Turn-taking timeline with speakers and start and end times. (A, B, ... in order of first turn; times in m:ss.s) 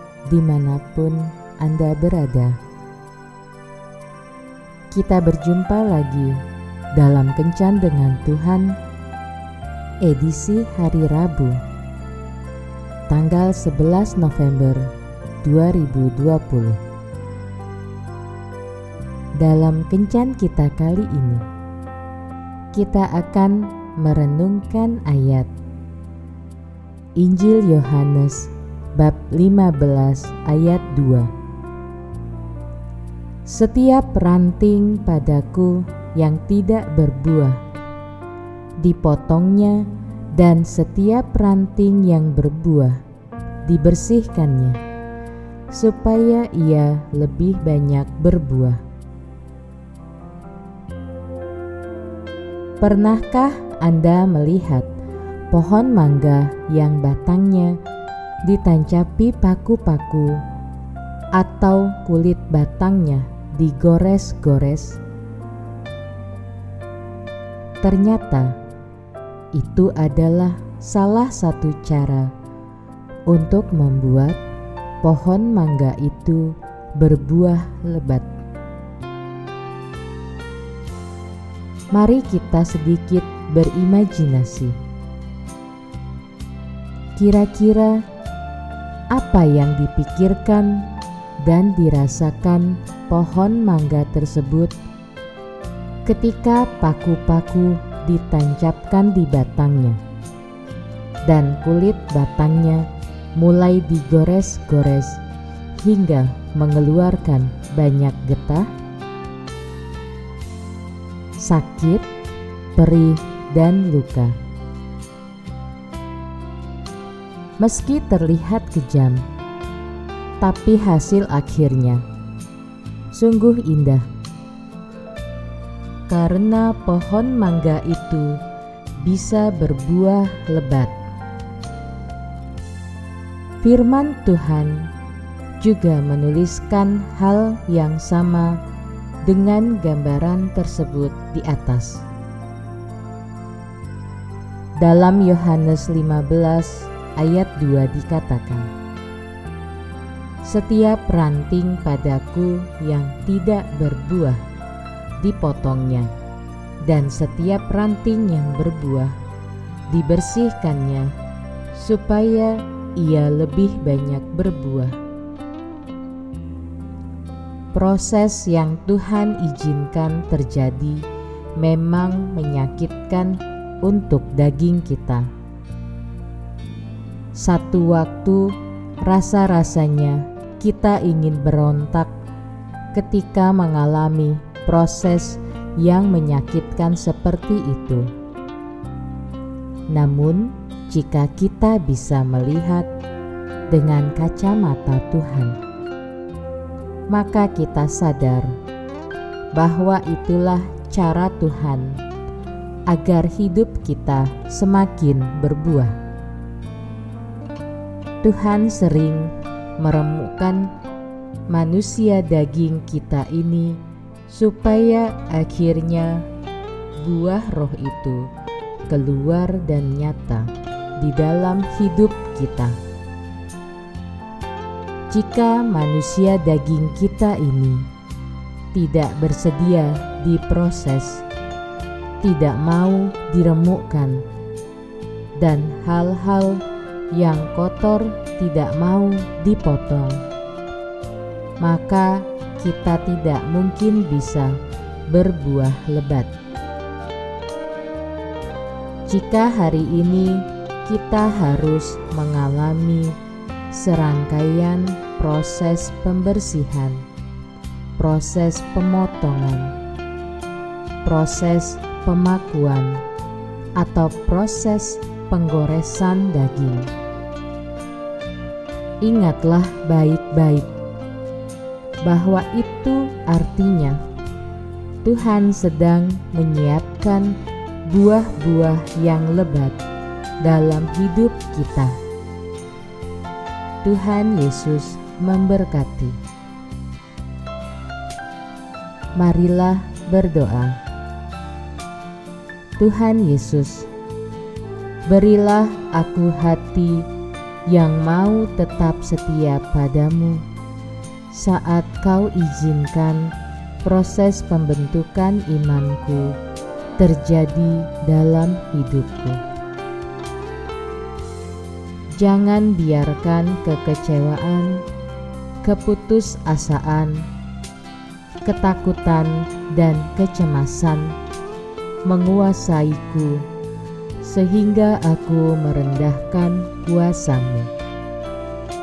0:00.3-0:02.6 A
0:04.9-0:06.4 A
0:06.9-0:08.8 A
0:10.0-0:11.6 A
0:13.1-0:14.9 A
0:15.4-0:16.8 A
0:19.4-0:21.4 A
0:22.7-0:25.5 A
0:27.2-0:31.3 A
0:33.4-0:37.6 A
0:38.8-0:43.0 A
0:43.6-0:44.8 A
0:45.7-0:48.8 A
0:52.8-0:54.9 A
0:55.5-0:57.8 A
0:58.4-1:00.4 A
1:01.3-1:05.0 A
1:07.8-1:08.6 A
1:09.5-1:12.3 A
1:13.3-1:14.4 A
1:15.0-1:18.3 A
1:21.9-1:24.8 A
1:27.2-1:28.0 A
1:29.1-1:30.9 A
1:31.4-1:34.7 A
1:36.0-1:40.0 A
1:41.2-1:45.2 A
1:45.8-1:48.7 A
1:51.4-1:52.1 A
1:52.8-1:54.4 A
1:57.6-1:59.2 A
2:00.4-2:02.0 A
2:03.1-2:04.1 A
2:06.1-2:08.4 A
2:09.0-2:10.9 A
2:13.6-2:14.9 A
2:15.6-2:18.6 A
2:19.2-2:22.0 A
2:24.8-2:28.7 A
2:30.4-2:34.4 A
2:35.2-2:36.1 A
2:36.8-2:39.1 A
2:39.9-2:41.1 A
2:41.7-2:45.0 A
2:47.7-2:55.3 A
2:57.4-3:02.1 A
3:02.9-3:08.1 A
3:09.9-3:12.9 A
3:13.7-3:15.6 A
3:17.1-3:18.5 A
3:19.5-3:22.0 A
3:22.9-3:25.9 A
3:28.2-3:30.7 A
3:31.5-3:36.3 A
3:37.0-3:38.3 A
3:38.9-3:42.8 A
3:45.1-3:47.9 A
3:48.7-3:51.2 A
3:52.2-3:54.2 A
3:55.4-4:00.2 A
4:01.6-4:06.3 A
4:09.1-4:13.2 A
4:13.7-4:17.0 A
4:18.0-4:19.7 A
4:21.0-4:23.0 A
4:23.8-4:26.9 A
4:29.0-4:30.8 A
4:32.0-4:34.0 A
4:35.0-4:39.8 A
4:40.4-4:42.0 A
4:43.8-4:46.2 A
4:49.2-4:50.8 A
4:52.8-4:53.9 A
4:55.1-4:57.1 A
4:57.7-5:00.4 A
5:01.3-5:03.3 A
5:03.8-5:06.4 A
5:07.0-5:09.4 A
5:12.2-5:14.8 A
5:15.6-5:17.2 A
5:18.4-5:21.2 A
5:22.0-5:23.4 A
5:24.2-5:27.7 A